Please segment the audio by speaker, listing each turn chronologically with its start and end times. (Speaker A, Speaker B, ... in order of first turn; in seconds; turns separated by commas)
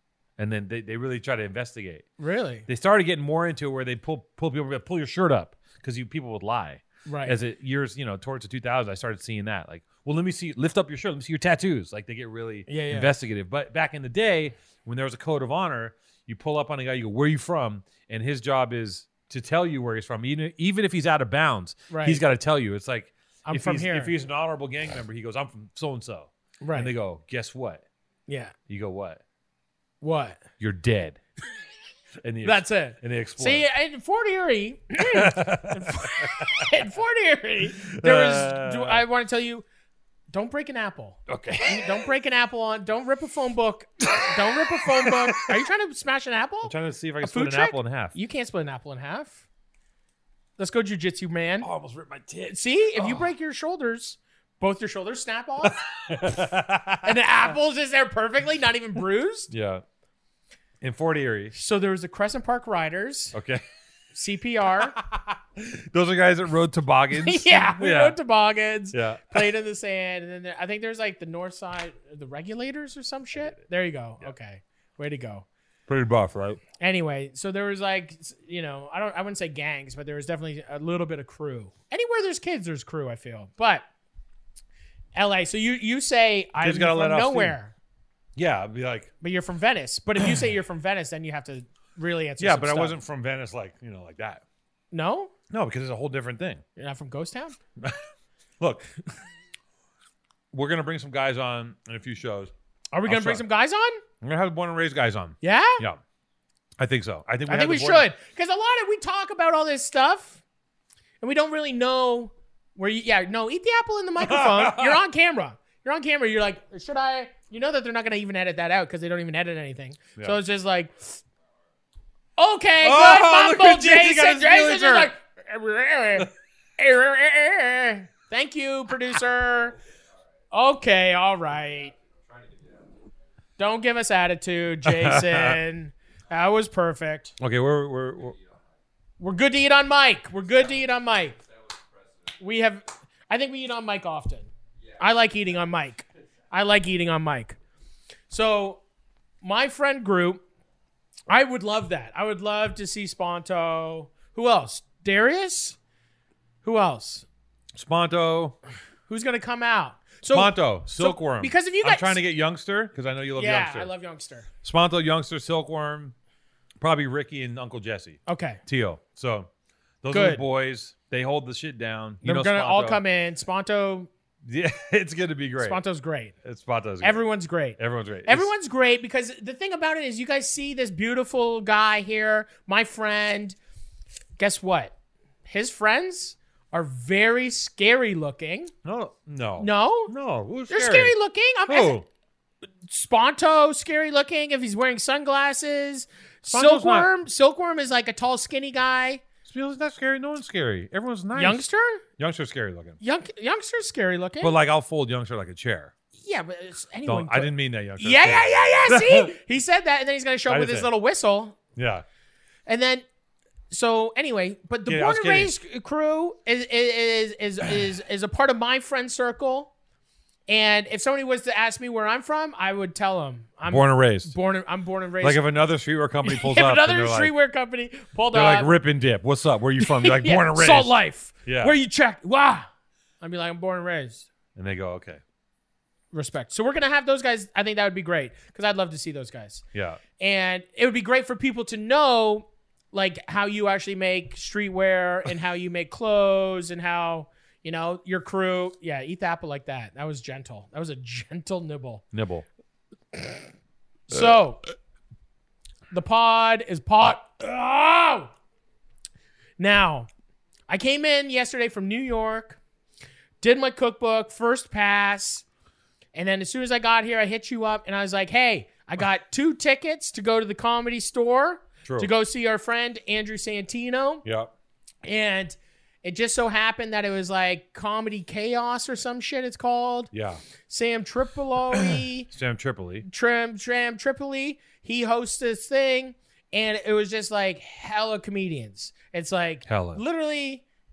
Speaker A: 0.4-2.0, Speaker B: 2.2-2.7, Speaker A: 2.7-27.8, Speaker B: 7.0-7.3, Speaker B: 12.7-13.1, Speaker B: 21.9-22.2, Speaker B: 23.4-24.1, Speaker B: 26.6-26.9, Speaker B: 28.3-28.5, Speaker A: 28.7-29.2, Speaker B: 30.0-30.4, Speaker A: 30.6-31.2, Speaker A: 32.2-33.6, Speaker B: 32.4-39.6, Speaker A: 35.0-36.7, Speaker A: 37.8-39.0, Speaker B: 40.3-49.4, Speaker A: 41.3-42.1, Speaker A: 44.0-45.6, Speaker A: 46.6-48.1, Speaker B: 50.6-51.7, Speaker A: 51.6-53.3, Speaker B: 52.5-55.8, Speaker A: 55.6-57.2, Speaker B: 57.0-59.5, Speaker A: 59.5-59.8, Speaker A: 60.8-61.5, Speaker B: 61.5-63.3, Speaker A: 63.3-63.6, Speaker B: 64.1-65.0, Speaker A: 64.9-68.2, Speaker B: 67.2-75.5, Speaker A: 68.9-69.5, Speaker A: 75.9-76.6, Speaker B: 76.8-83.8, Speaker B: 85.1-87.7, Speaker A: 86.6-87.5, Speaker A: 88.3-89.1, Speaker B: 89.2-93.0, Speaker A: 92.4-94.4, Speaker B: 94.9-95.3, Speaker A: 95.5-96.6, Speaker B: 96.8-97.6, Speaker A: 97.8-98.0, Speaker A: 98.6-99.0, Speaker A: 100.5-102.5, Speaker B: 102.9-104.0, Speaker A: 103.0-103.4, Speaker A: 104.2-106.0, Speaker B: 105.4-105.8, Speaker A: 106.8-108.1, Speaker B: 107.5-110.4, Speaker B: 111.2-121.2, Speaker A: 114.2-115.0, Speaker B: 122.4-129.7, Speaker A: 122.8-125.1, Speaker B: 130.5-131.9, Speaker B: 133.6-137.3, Speaker A: 134.8-135.6, Speaker A: 137.4-138.4, Speaker B: 139.2-141.4, Speaker B: 142.4-147.6, Speaker B: 148.3-148.8, Speaker B: 149.4-150.4, Speaker B: 151.3-155.8, Speaker B: 156.6-157.2, Speaker A: 157.7-158.6, Speaker B: 159.1-162.2, Speaker A: 160.3-163.9, Speaker B: 163.4-164.5, Speaker A: 164.6-166.1, Speaker A: 166.8-169.5, Speaker B: 168.2-168.6, Speaker A: 170.0-173.0, Speaker B: 170.1-170.4, Speaker B: 172.2-174.1, Speaker A: 174.4-175.8, Speaker B: 175.6-176.3, Speaker A: 176.4-177.3, Speaker B: 177.0-183.6, Speaker A: 177.8-178.5, Speaker B: 184.4-184.9, Speaker B: 185.4-188.7, Speaker A: 188.8-191.1, Speaker B: 189.6-190.1, Speaker B: 190.7-192.0, Speaker A: 191.7-192.0, Speaker B: 192.9-199.2, Speaker A: 196.5-197.1, Speaker A: 199.4-201.7, Speaker B: 201.3-202.0, Speaker A: 202.2-203.0, Speaker B: 203.0-204.5, Speaker A: 204.4-205.9, Speaker B: 206.2-211.6, Speaker A: 207.1-209.3, Speaker A: 210.5-210.9, Speaker A: 211.8-212.0, Speaker B: 212.7-213.0, Speaker B: 213.7-219.7, Speaker A: 214.9-215.5, Speaker B: 220.5-225.4, Speaker A: 223.7-224.3, Speaker A: 225.2-227.3, Speaker B: 226.2-228.7, Speaker A: 228.3-231.7, Speaker B: 229.8-232.7, Speaker B: 233.2-234.3, Speaker A: 234.5-235.2, Speaker B: 236.1-239.6, Speaker A: 239.7-240.0, Speaker B: 240.2-252.0, Speaker A: 252.1-252.4, Speaker B: 254.1-254.6, Speaker A: 254.1-254.4, Speaker B: 255.9-258.3, Speaker B: 259.6-260.1, Speaker B: 260.7-262.6, Speaker B: 263.4-265.4, Speaker B: 266.1-274.2, Speaker A: 271.8-272.1, Speaker A: 274.2-274.5, Speaker B: 275.0-280.1, Speaker A: 280.1-280.4, Speaker B: 280.7-282.3, Speaker A: 281.7-283.1, Speaker B: 283.0-290.6, Speaker A: 289.7-290.0